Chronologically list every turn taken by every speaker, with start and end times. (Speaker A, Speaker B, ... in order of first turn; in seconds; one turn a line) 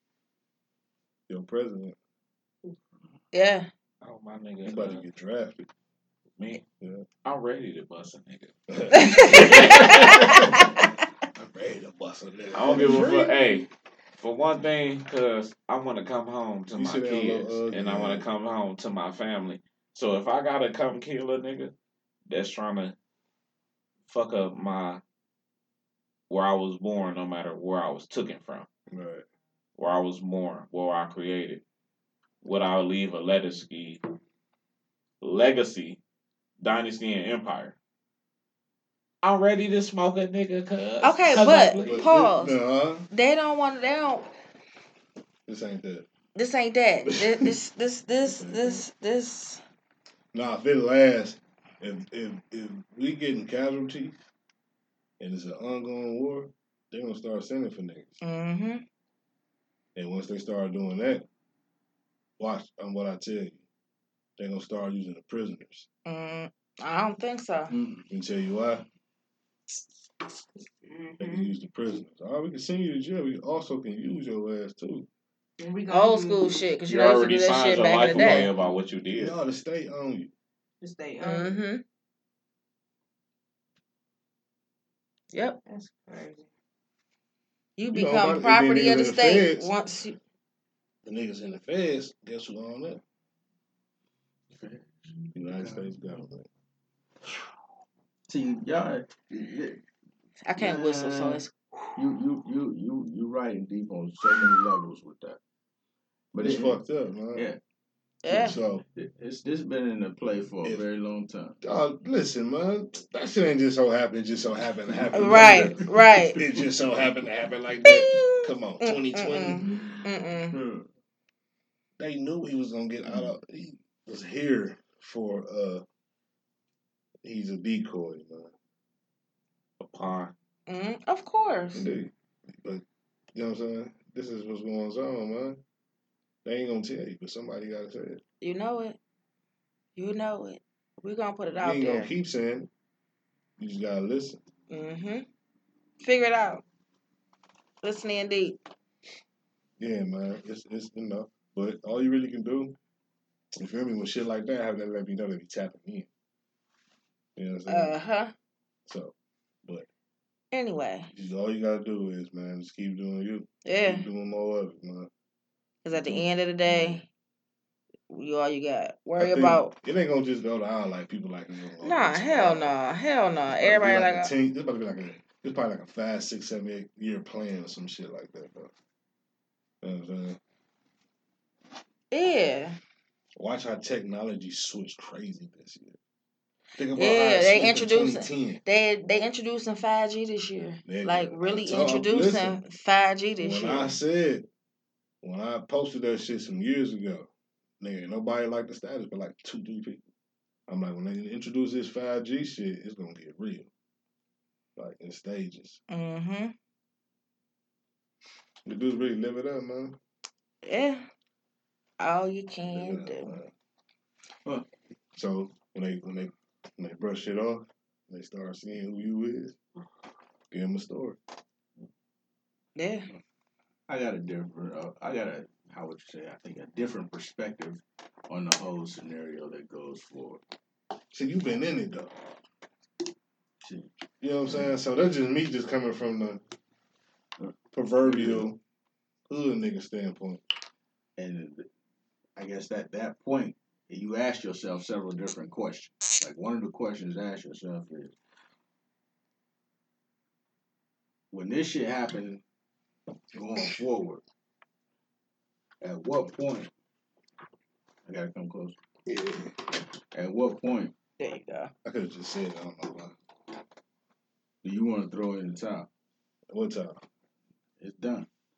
Speaker A: 1.3-2.0
Speaker B: 3.3-3.7
Speaker C: 4.0-5.0
Speaker A: 4.6-5.7
Speaker C: 6.4-6.6
Speaker A: 6.8-7.1
Speaker C: 7.2-8.5
Speaker A: 8.7-10.7
Speaker B: 8.9-10.8
Speaker C: 9.1-10.4
Speaker A: 11.3-13.5
Speaker C: 12.5-21.7
Speaker A: 16.7-18.3
Speaker C: 22.3-22.9
Speaker C: 24.1-25.0
Speaker C: 26.3-28.7
Speaker A: 28.9-29.2
Speaker C: 29.8-31.6
Speaker C: 32.4-34.0
Speaker C: 35.2-36.0
Speaker C: 36.6-37.8
Speaker C: 39.2-42.1
Speaker B: 41.0-42.6
Speaker A: 41.7-43.1
Speaker B: 43.1-44.3
Speaker A: 45.5-46.1
Speaker B: 46.4-49.6
Speaker A: 47.1-47.5
Speaker A: 48.3-48.8
Speaker A: 50.3-54.1
Speaker A: 55.2-58.2
Speaker B: 58.2-58.8
Speaker A: 60.0-61.3
Speaker A: 62.4-63.6
Speaker A: 64.4-65.9
Speaker B: 66.1-67.7
Speaker D: 67.7-68.1
Speaker A: 68.1-68.8
Speaker E: 70.8-71.5
Speaker A: 71.2-75.1
Speaker E: 75.6-76.8
Speaker B: 75.9-78.5
Speaker C: 76.9-79.4
Speaker A: 79.1-80.3
Speaker E: 80.8-81.6
Speaker B: 81.2-81.8
Speaker B: 85.3-85.6
Speaker E: 85.7-86.5
Speaker B: 87.8-90.2
Speaker A: 87.9-89.7
Speaker A: 91.0-93.0
Speaker D: 94.5-96.2
Speaker A: 95.3-96.5
Speaker D: 98.3-99.8
Speaker B: 100.5-101.5
Speaker D: 100.6-101.4
Speaker D: 102.0-105.4
Speaker D: 106.3-106.8
Speaker A: 106.4-107.5
Speaker D: 107.3-107.6
Speaker B: 108.2-108.6
Speaker A: 108.3-108.8
Speaker D: 108.9-111.6
Speaker A: 111.6-119.8
Speaker D: 114.9-115.9
Speaker B: 115.1-116.4
Speaker B: 117.8-120.6
Speaker D: 120.5-120.9
Speaker A: 122.0-125.8
Speaker A: 127.2-128.5
Speaker C: 129.8-130.3
Speaker B: 130.7-131.9
Speaker A: 131.7-132.8
Speaker A: 133.3-135.6
Speaker A: 136.4-138.2
Speaker B: 138.4-139.0
Speaker B: 140.0-142.1
Speaker A: 141.6-142.7
Speaker A: 143.6-144.4
Speaker B: 144.7-145.3
Speaker B: 146.0-146.6
Speaker B: 147.8-148.6
Speaker A: 149.8-152.8
Speaker A: 153.6-156.1
Speaker A: 157.4-158.0
Speaker B: 157.7-158.3
Speaker A: 158.9-159.1
Speaker B: 160.5-161.1
Speaker A: 161.1-165.1
Speaker B: 163.7-164.1
Speaker B: 165.8-167.1
Speaker A: 166.1-167.0
Speaker B: 168.1-169.7
Speaker A: 169.2-172.8
Speaker B: 171.8-174.3
Speaker A: 173.6-178.7
Speaker A: 179.8-180.4
Speaker B: 182.1-182.8
Speaker A: 183.3-186.0
Speaker A: 186.8-188.6
Speaker B: 186.9-193.9
Speaker A: 190.8-192.6
Speaker A: 193.4-194.5
Speaker A: 195.2-197.3
Speaker A: 197.8-200.0
Speaker A: 200.7-203.7
Speaker A: 204.8-205.8
Speaker B: 205.9-206.5
Speaker A: 208.7-210.0
Speaker B: 210.6-211.1
Speaker B: 212.0-213.4
Speaker A: 212.7-213.5
Speaker A: 215.2-219.6
Speaker A: 220.5-221.2
Speaker B: 222.8-223.1
Speaker D: 223.9-230.4
Speaker A: 231.1-232.1
Speaker D: 233.6-233.9
Speaker A: 234.2-236.4
Speaker D: 237.4-238.5
Speaker A: 237.7-238.6
Speaker A: 239.3-240.4
Speaker D: 241.2-241.7
Speaker D: 242.4-248.1
Speaker D: 251.3-252.4
Speaker D: 253.3-254.2
Speaker D: 255.8-256.7
Speaker D: 258.1-258.8
Speaker A: 259.1-259.5
Speaker D: 260.1-260.9
Speaker B: 261.2-261.7
Speaker A: 261.8-263.1
Speaker D: 264.6-265.9
Speaker A: 266.5-267.0
Speaker D: 267.8-268.3